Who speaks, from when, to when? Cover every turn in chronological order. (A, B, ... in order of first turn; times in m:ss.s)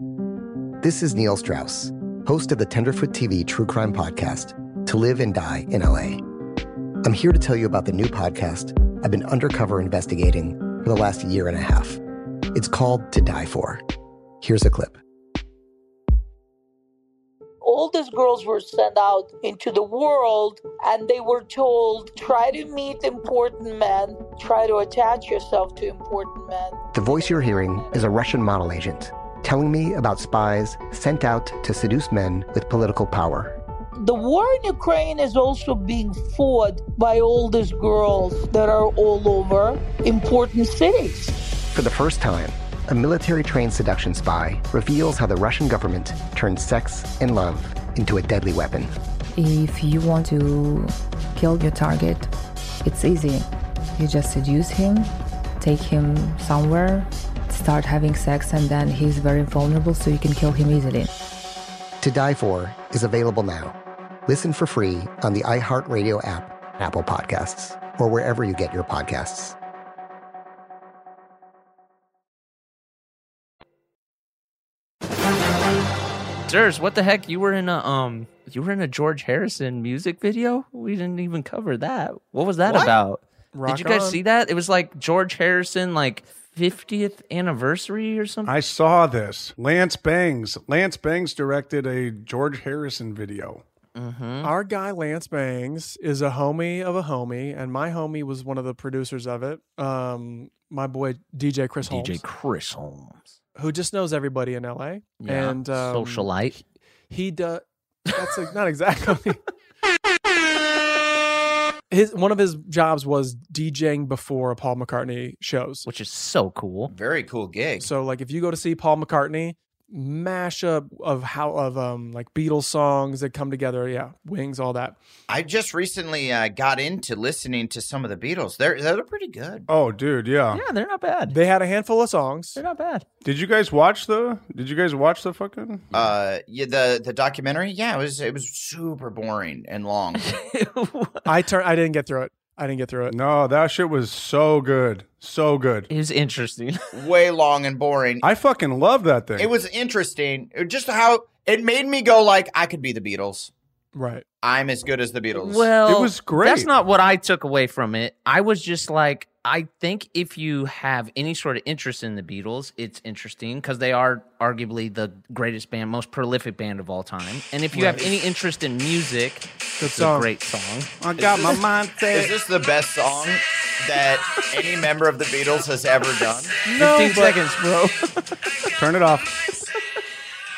0:00.8-0:06.2 A
0:07.0-0:12.0 A
0:12.5-0:13.8 A
0:14.4-0:15.0 A
0:17.6-0:26.8 B
0:26.9-0:33.6 A
0:34.0-0:41.4 B
0:41.7-0:48.9 A
0:49.4-0:52.3 C
0:52.8-1:01.1 C
1:02.0-1:09.6 A
1:16.5-1:28.6 D
1:23.5-1:24.2 E
1:28.5-1:33.6 F
1:34.0-1:34.5 D
1:34.4-1:42.2 E
1:41.8-1:43.3 D
1:43.6-1:49.4 E
1:45.2-1:46.6 D
1:51.9-1:55.8 E
1:55.8-1:56.9 D
1:56.9-1:57.9 G
1:57.8-2:05.0 E
2:05.3-2:09.7 G
2:09.7-2:10.6 F
2:10.5-2:11.4 D
2:11.3-2:12.6 E
2:12.6-2:13.0 D
2:13.2-2:16.0 F
2:15.9-2:20.3 G
2:20.2-2:21.3 D
2:21.3-2:23.2 E
2:23.1-2:25.9 F
2:25.9-2:26.8 D
2:26.9-2:28.2 G
2:28.2-2:29.5 F
2:29.4-2:33.5 G
2:33.9-2:34.2 E
2:34.4-2:35.7 G
2:35.4-2:51.6 D
2:35.8-2:36.7 F
2:47.7-2:48.1 E
2:49.8-2:50.3 E
2:51.0-2:52.3 F
2:52.1-2:56.6 G
2:56.7-2:57.4 E
2:56.7-2:58.3 D
2:58.8-2:59.4 F